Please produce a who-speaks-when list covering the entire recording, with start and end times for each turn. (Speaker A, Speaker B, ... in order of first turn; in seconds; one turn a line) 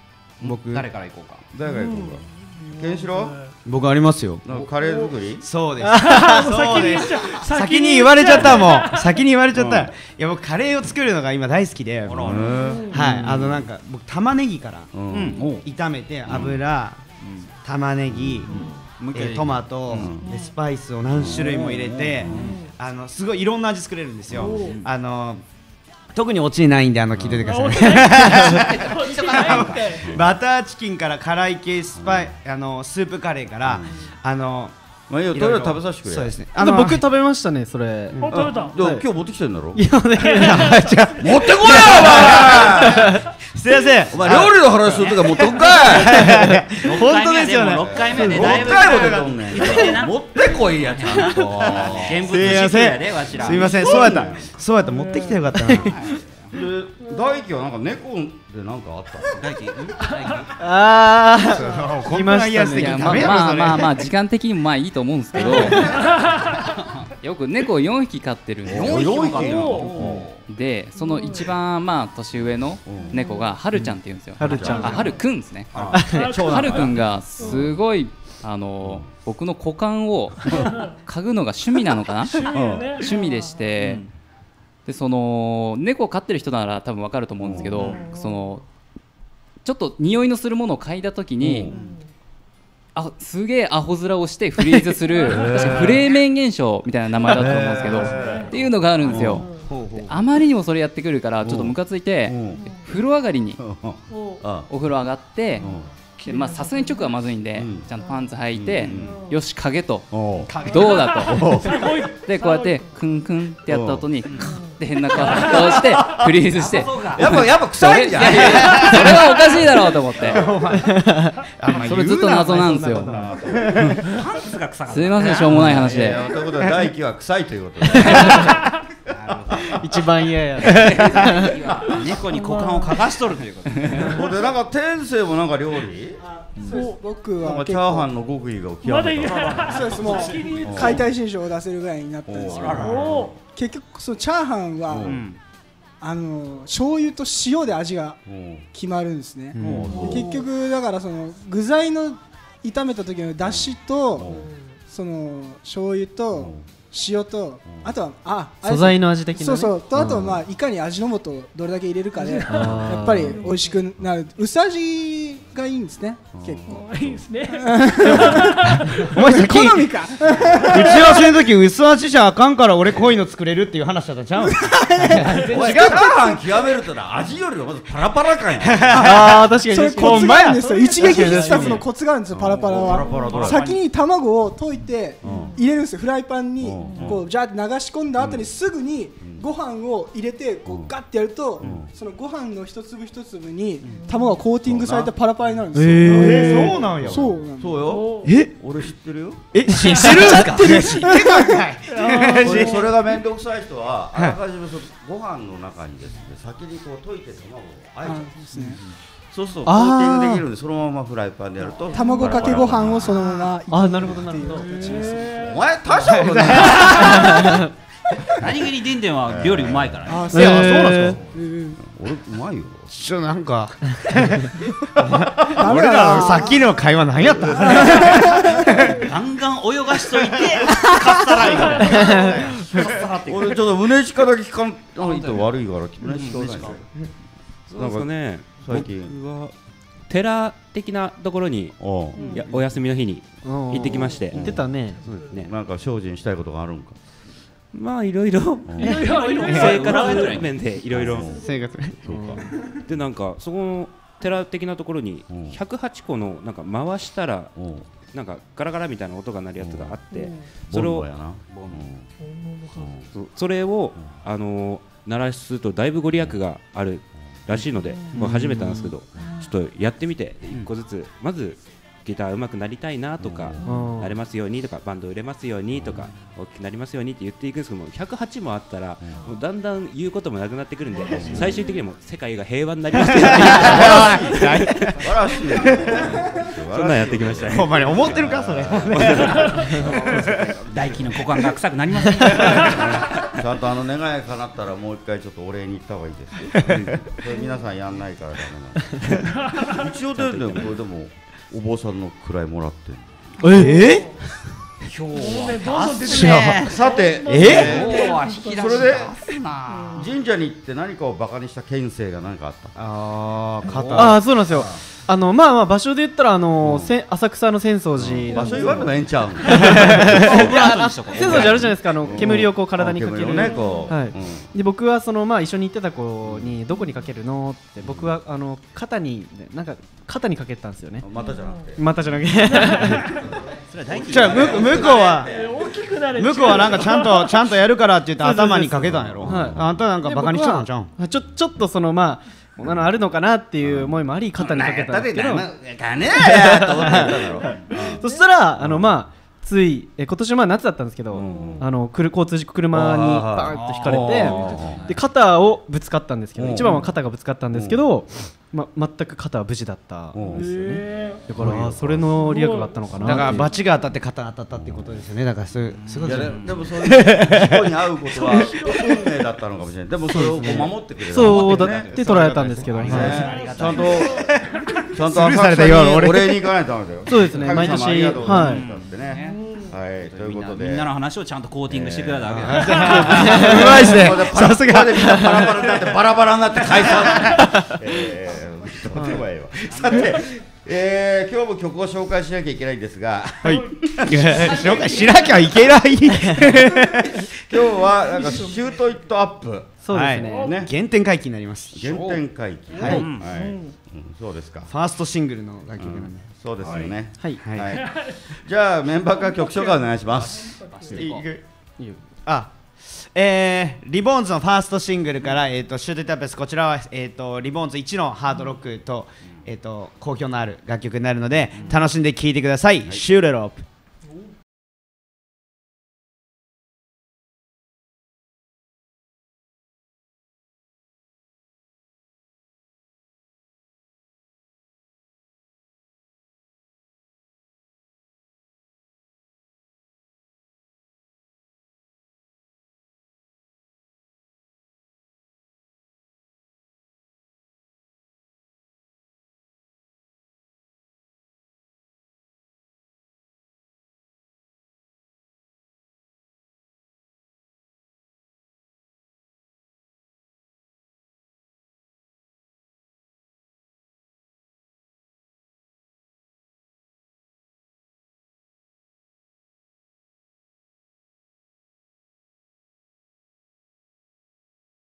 Speaker A: 0.4-1.4
Speaker B: 0.4-0.9
Speaker C: 1.5-3.4
Speaker D: 1.6-3.5
Speaker B: 3.6-4.4
Speaker C: 4.4-5.5
Speaker D: 4.8-5.2
Speaker B: 5.4-15.0
Speaker D: 5.8-9.3
Speaker C: 8.4-8.7
Speaker C: 9.5-9.9
Speaker A: 12.1-12.7
Speaker C: 12.2-13.6
Speaker D: 12.5-13.1
Speaker C: 14.9-15.4
Speaker A: 15.1-15.6
Speaker D: 15.1-15.5
Speaker B: 15.6-17.0
Speaker C: 16.3-16.6
Speaker A: 17.2-17.5
Speaker B: 17.6-18.5
Speaker C: 18.1-18.7
Speaker A: 18.5-20.1
Speaker B: 19.1-25.4
Speaker C: 19.9-20.2
Speaker D: 20.2-20.5
Speaker C: 21.1-21.5
Speaker A: 21.3-22.6
Speaker C: 22.2-22.6
Speaker D: 22.4-22.7
Speaker C: 24.3-24.6
Speaker D: 24.4-24.8
Speaker A: 24.4-24.9
Speaker B: 26.1-34.7
Speaker C: 27.1-27.5
Speaker D: 27.4-30.1
Speaker A: 28.3-30.0
Speaker C: 30.0-30.3
Speaker C: 31.9-32.4
Speaker C: 33.6-34.0
Speaker C: 35.1-36.4
Speaker B: 35.3-37.1
Speaker E: 36.5-39.0
Speaker D: 38.2-38.8
Speaker C: 38.3-39.9
Speaker E: 39.7-43.2
Speaker D: 40.2-40.9
Speaker B: 40.4-49.8
Speaker C: 41.2-43.2
Speaker C: 44.1-46.4
Speaker A: 46.8-53.9
Speaker C: 47.9-52.8
Speaker B: 52.2-56.1
Speaker C: 53.3-54.5
Speaker D: 54.9-55.4
Speaker A: 55.8-56.5
Speaker C: 56.1-59.6
Speaker A: 59.4-60.5
Speaker D: 60.0-60.4
Speaker E: 60.6-63.4
Speaker B: 61.5-64.1
Speaker F: 62.7-65.9
Speaker D: 65.4-66.8
Speaker F: 67.2-69.1
Speaker C: 68.6-70.3
Speaker A: 68.7-70.4
Speaker D: 68.8-70.2
Speaker F: 70.4-82.5
Speaker D: 70.9-71.5
Speaker C: 72.8-73.2
Speaker D: 72.9-73.6
Speaker E: 74.4-75.1
Speaker C: 74.4-75.0
Speaker D: 74.6-75.2
Speaker A: 75.7-76.0
Speaker C: 75.7-77.7
Speaker D: 76.1-77.7
Speaker C: 78.8-79.1
Speaker D: 80.6-81.0
Speaker D: 81.9-83.7
Speaker C: 82.5-83.0
Speaker F: 83.0-84.0
Speaker A: 83.8-84.1
Speaker F: 84.9-88.6
Speaker C: 87.4-88.0
Speaker D: 87.5-88.5
Speaker F: 89.6-91.7
Speaker C: 91.4-91.7
Speaker D: 91.7-92.1
Speaker A: 91.7-91.9
Speaker F: 92.9-99.5
Speaker D: 95.0-95.8
Speaker C: 95.2-96.0
Speaker D: 97.2-99.7
Speaker C: 97.2-99.5
Speaker B: 99.7-100.1
Speaker F: 100.1-103.6
Speaker C: 101.4-102.8
Speaker D: 102.5-102.9
Speaker C: 103.6-104.7
Speaker D: 104.1-104.4
Speaker F: 104.7-105.6
Speaker D: 105.5-107.2
Speaker C: 105.6-105.9
Speaker F: 106.2-110.1
Speaker C: 107.5-107.9
Speaker D: 107.9-109.4
Speaker C: 108.5-109.2
Speaker C: 110.1-112.0
Speaker D: 110.6-113.0
Speaker F: 110.7-111.5
Speaker F: 112.2-120.5
Speaker C: 113.7-114.4
Speaker A: 114.2-114.6
Speaker D: 114.4-116.3
Speaker C: 115.3-116.3
Speaker A: 116.5-117.3
Speaker C: 117.1-120.5
Speaker A: 118.2-119.1
Speaker B: 118.6-118.9
Speaker B: 120.1-121.0
Speaker E: 120.7-121.4
Speaker B: 121.6-123.9
Speaker A: 121.7-122.0
Speaker F: 121.8-123.1
Speaker E: 122.4-123.0
Speaker C: 122.9-124.0
Speaker A: 124.0-126.2
Speaker F: 124.9-126.2
Speaker C: 125.5-128.6
Speaker A: 129.1-129.8
Speaker C: 129.5-129.8
Speaker E: 129.8-131.5
Speaker A: 130.6-134.2
Speaker C: 131.9-132.2
Speaker D: 132.3-133.0
Speaker C: 134.1-136.2
Speaker G: 136.2-138.1
Speaker D: 136.7-137.0
Speaker C: 137.2-139.7
Speaker D: 138.8-141.1
Speaker A: 139.2-141.0
Speaker G: 139.7-145.2
Speaker C: 140.6-141.1
Speaker C: 142.2-143.4
Speaker A: 142.4-143.1
Speaker D: 142.8-143.3
Speaker C: 144.9-145.3
Speaker A: 145.0-145.4
Speaker G: 146.0-148.2
Speaker C: 148.2-148.7
Speaker G: 148.7-154.3
Speaker E: 149.6-150.1
Speaker C: 149.6-150.3
Speaker D: 149.9-150.4
Speaker C: 153.4-154.5
Speaker D: 154.3-154.7
Speaker G: 154.9-166.9
Speaker C: 156.3-156.7
Speaker C: 157.6-157.9
Speaker E: 158.6-160.2
Speaker C: 160.0-160.3
Speaker D: 162.2-163.9
Speaker E: 162.5-163.4
Speaker C: 162.6-162.9
Speaker C: 166.3-167.3
Speaker D: 166.7-169.1
Speaker G: 167.7-168.6
Speaker E: 169.1-170.1
Speaker B: 169.2-176.3
Speaker G: 169.4-169.7
Speaker G: 170.2-171.2
Speaker C: 170.3-170.8
Speaker E: 175.0-175.5
Speaker C: 175.3-179.3
Speaker G: 175.7-176.4
Speaker B: 178.6-179.5
Speaker E: 179.0-181.8
Speaker G: 179.6-198.1
Speaker D: 180.2-181.8
Speaker C: 182.3-183.7
Speaker A: 182.7-183.8
Speaker D: 182.9-183.5
Speaker C: 185.2-185.6
Speaker D: 185.2-185.6
Speaker C: 186.6-187.2
Speaker D: 186.8-187.2
Speaker C: 188.2-188.5
Speaker C: 189.2-189.4
Speaker C: 191.6-191.9
Speaker D: 193.9-194.4
Speaker C: 194.6-195.2
Speaker E: 195.7-196.8
Speaker C: 195.9-199.6
Speaker B: 196.0-197.3
Speaker D: 197.8-198.3
Speaker B: 198.2-198.5
Speaker B: 199.5-202.8
Speaker E: 199.8-200.7
Speaker D: 201.9-202.9
Speaker C: 202.4-214.3
Speaker G: 208.5-208.7
Speaker E: 209.7-210.4
Speaker D: 211.9-212.4
Speaker G: 211.9-215.4
Speaker E: 213.7-215.3
Speaker D: 214.5-215.6
Speaker C: 215.4-217.6
Speaker B: 215.9-217.3
Speaker E: 217.0-217.6
Speaker A: 218.4-220.3
Speaker C: 218.4-218.7
Speaker C: 219.2-221.1
Speaker G: 220.1-221.7
Speaker E: 220.3-221.2
Speaker B: 220.4-221.1
Speaker C: 221.7-222.9
Speaker B: 222.9-228.4
Speaker C: 225.0-226.5
Speaker G: 225.6-226.6
Speaker C: 227.2-229.0
Speaker A: 229.0-233.6
Speaker D: 231.5-232.2
Speaker E: 231.9-232.3
Speaker C: 233.2-236.9
Speaker A: 235.0-236.8
Speaker H: 237.7-239.5
Speaker C: 237.7-239.1
Speaker H: 240.1-245.5
Speaker C: 241.8-242.8
Speaker D: 242.1-242.4
Speaker E: 243.4-245.0
Speaker C: 244.1-247.0
Speaker H: 247.7-251.3
Speaker C: 248.6-249.1
Speaker D: 248.8-250.4
Speaker A: 249.1-250.6
Speaker B: 249.4-249.8
Speaker C: 250.6-252.5
Speaker B: 251.3-252.6
Speaker H: 252.7-257.5
Speaker C: 255.3-255.6
Speaker C: 257.6-257.9
Speaker H: 258.1-261.1
Speaker C: 259.6-260.0
Speaker D: 260.1-260.5
Speaker C: 260.7-262.1
Speaker A: 261.5-261.9
Speaker D: 262.2-263.0
Speaker C: 262.7-263.1
Speaker H: 263.1-284.7
Speaker C: 267.4-269.0
Speaker D: 267.9-268.2
Speaker D: 269.1-269.5
Speaker C: 273.2-273.6
Speaker D: 273.6-273.9
Speaker E: 273.6-274.1
Speaker C: 275.7-276.1
Speaker C: 279.0-279.2
Speaker D: 280.9-281.8
Speaker C: 281.0-281.6
Speaker B: 283.0-286.1
Speaker C: 283.2-291.5
Speaker H: 286.7-289.0
Speaker B: 287.4-289.8
Speaker A: 289.3-293.2
Speaker C: 292.2-303.5
Speaker B: 296.6-296.9
Speaker D: 297.3-297.6
Speaker D: 299.4-299.9
Speaker H: 300.1-300.7
Speaker E: 303.4-303.9
Speaker B: 303.4-304.1
Speaker D: 303.6-304.1
Speaker A: 304.8-310.1
Speaker D: 305.1-309.0
Speaker B: 306.1-306.6
Speaker C: 306.6-309.1
Speaker B: 307.3-307.7
Speaker D: 309.6-310.1
Speaker C: 309.9-312.8
Speaker B: 312.7-314.2
Speaker C: 313.6-314.8
Speaker E: 313.9-320.5
Speaker C: 316.6-316.9
Speaker C: 318.0-320.5
Speaker D: 318.3-318.9
Speaker A: 320.1-321.8
Speaker E: 321.1-331.1
Speaker C: 321.1-324.5
Speaker D: 323.3-323.9
Speaker C: 326.2-326.6
Speaker C: 327.8-328.1
Speaker C: 331.0-332.1
Speaker D: 331.2-331.7
Speaker E: 331.8-333.1
Speaker D: 332.4-333.2
Speaker C: 333.2-335.7
Speaker A: 333.7-335.1
Speaker B: 334.0-335.3
Speaker D: 335.2-337.6
Speaker B: 336.1-340.9
Speaker E: 338.2-345.5
Speaker C: 338.7-339.9
Speaker C: 343.6-348.0
Speaker E: 346.2-347.2
Speaker D: 347.4-348.4
Speaker E: 347.7-363.6
Speaker C: 348.6-349.0
Speaker C: 351.1-351.7
Speaker D: 351.1-351.6
Speaker C: 352.7-354.9
Speaker A: 353.5-355.0
Speaker C: 356.4-356.9
Speaker D: 356.6-356.9
Speaker C: 357.5-358.0
Speaker C: 360.1-360.5
Speaker D: 360.2-361.5
Speaker C: 361.3-362.3
Speaker D: 362.1-363.8
Speaker C: 362.9-363.2
Speaker B: 363.0-367.7
Speaker C: 364.5-365.1
Speaker A: 365.7-366.6
Speaker C: 366.0-371.9
Speaker D: 368.2-369.1
Speaker E: 370.1-373.2
Speaker B: 370.2-373.4
Speaker A: 372.7-374.1
Speaker C: 372.8-374.3
Speaker D: 373.2-374.3
Speaker B: 374.2-376.5
Speaker C: 374.9-380.9
Speaker E: 377.1-378.6
Speaker A: 378.4-379.4
Speaker D: 379.1-379.7
Speaker A: 380.0-383.6
Speaker C: 381.7-395.1
Speaker B: 382.3-385.9
Speaker E: 383.3-383.8
Speaker B: 386.8-387.4
Speaker A: 389.7-390.3
Speaker B: 394.0-397.3
Speaker D: 394.9-395.2
Speaker C: 397.4-400.7
Speaker D: 397.9-398.9
Speaker E: 399.8-400.4
Speaker B: 399.9-402.0
Speaker D: 400.2-400.7
Speaker C: 401.7-404.7
Speaker A: 401.9-402.2
Speaker D: 402.7-403.7
Speaker B: 402.7-403.1
Speaker A: 402.8-403.3
Speaker B: 404.7-406.3
Speaker C: 405.8-411.4
Speaker B: 407.4-407.7
Speaker D: 407.7-408.2
Speaker D: 409.1-411.1
Speaker A: 410.1-411.3
Speaker B: 412.2-423.6